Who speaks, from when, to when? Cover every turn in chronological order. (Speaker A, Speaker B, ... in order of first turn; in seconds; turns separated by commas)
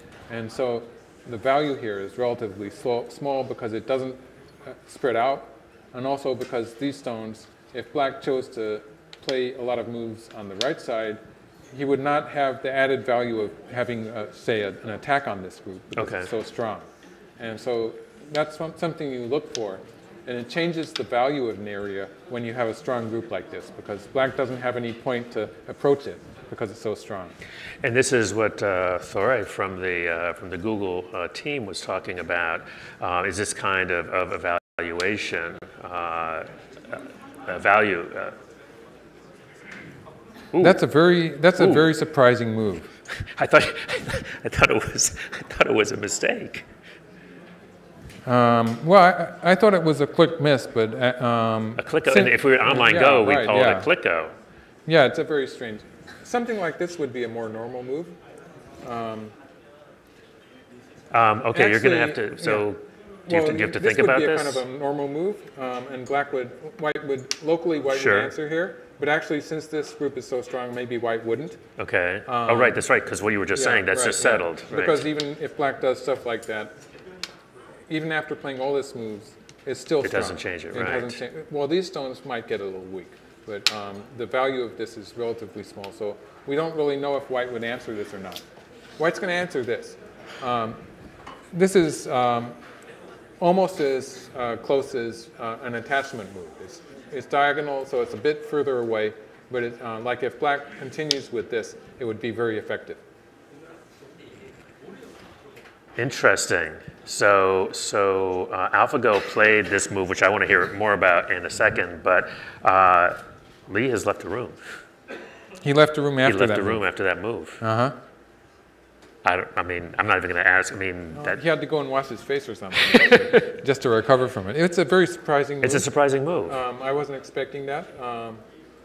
Speaker A: 0.3-11.2, Speaker A: 11.7-16.9, Speaker B: 15.9-16.3, Speaker A: 17.4-27.3, Speaker B: 27.8-38.3, Speaker A: 40.6-42.9, Speaker B: 41.6-41.9, Speaker B: 43.2-46.6, Speaker A: 48.2-53.9, Speaker B: 51.8-54.3, Speaker A: 54.9-58.1, Speaker A: 58.8-59.3, Speaker B: 61.1-64.6, Speaker A: 61.5-62.6, Speaker A: 63.3-71.6, Speaker B: 67.9-68.3, Speaker B: 71.8-75.0, Speaker A: 72.2-72.8, Speaker A: 73.5-76.7, Speaker A: 77.9-88.4, Speaker B: 80.0-81.2, Speaker A: 89.0-90.8, Speaker A: 91.5-92.6, Speaker A: 93.4-103.0, Speaker B: 106.0-114.7, Speaker A: 115.6-116.8, Speaker B: 116.2-117.6, Speaker A: 117.6-118.0, Speaker B: 119.2-121.4, Speaker A: 121.1-125.9, Speaker B: 122.9-123.2, Speaker B: 125.6-126.6, Speaker A: 126.5-128.4